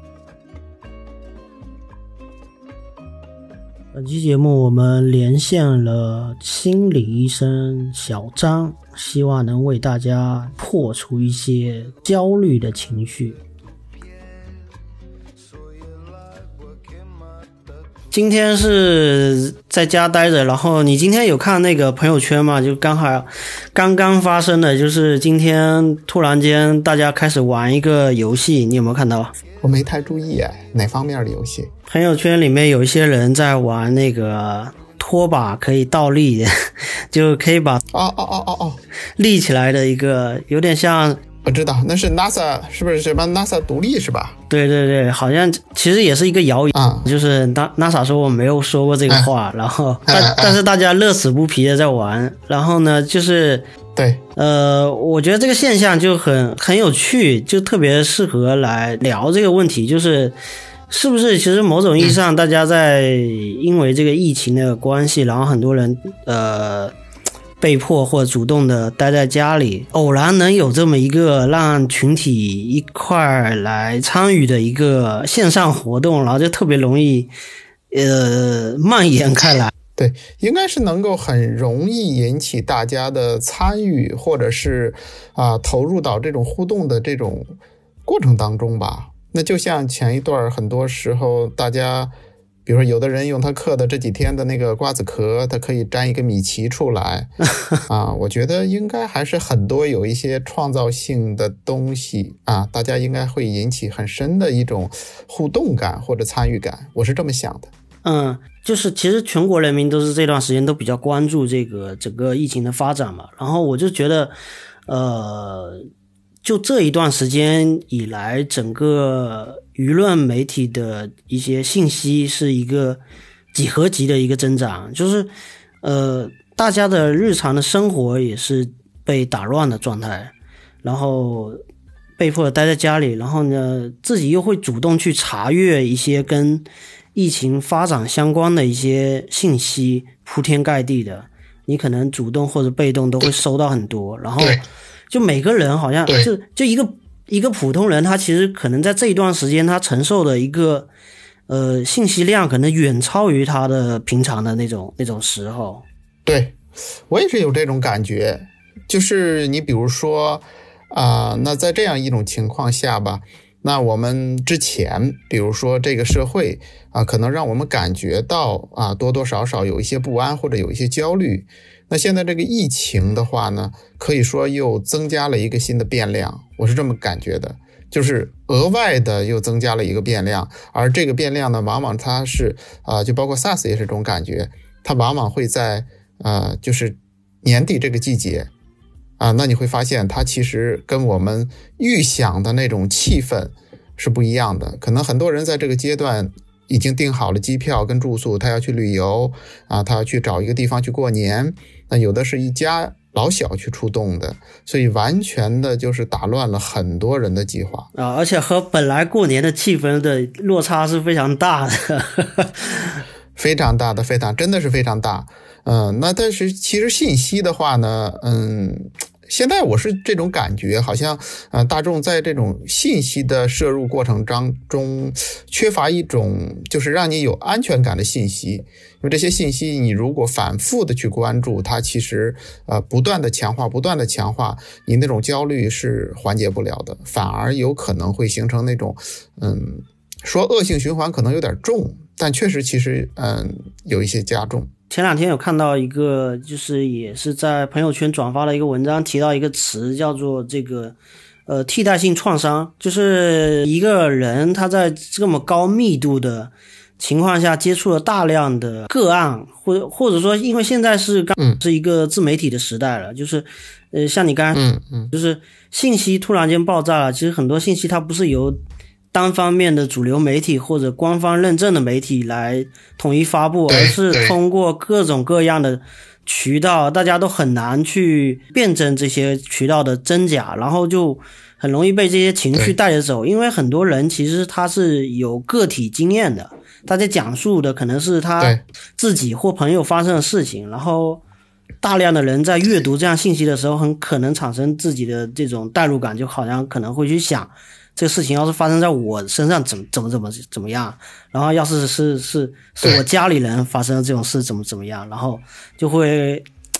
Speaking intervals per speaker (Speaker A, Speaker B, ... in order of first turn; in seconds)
Speaker A: 3.9-13.4, 18.1-29.3, 31.9-37.8, 39.2-41.2, 44.5-53.7, 54.4-60.4, 60.9-67.0, 67.6-77.3, 77.9-79.7, 108.0-114.3, 114.9-115.9, 116.4-123.0, 123.5-125.3, 125.8-130.3, 130.8-131.6, 132.2-150.9, 151.5-155.8, 207.9-213.0, 244.9-251.0, 251.5-268.6, 269.1-291.2, 291.8-306.5
Speaker B: 29.6-31.7, 37.9-38.8, 41.4-44.4, 46.8-47.1, 50.1-50.6, 54.0-54.2, 80.0-87.5, 88.1-92.1, 92.7-97.3, 97.9-107.7, 156.3-156.6, 157.1-188.5, 189.2-207.9, 213.4-244.7, 264.5-265.1, 273.7-274.4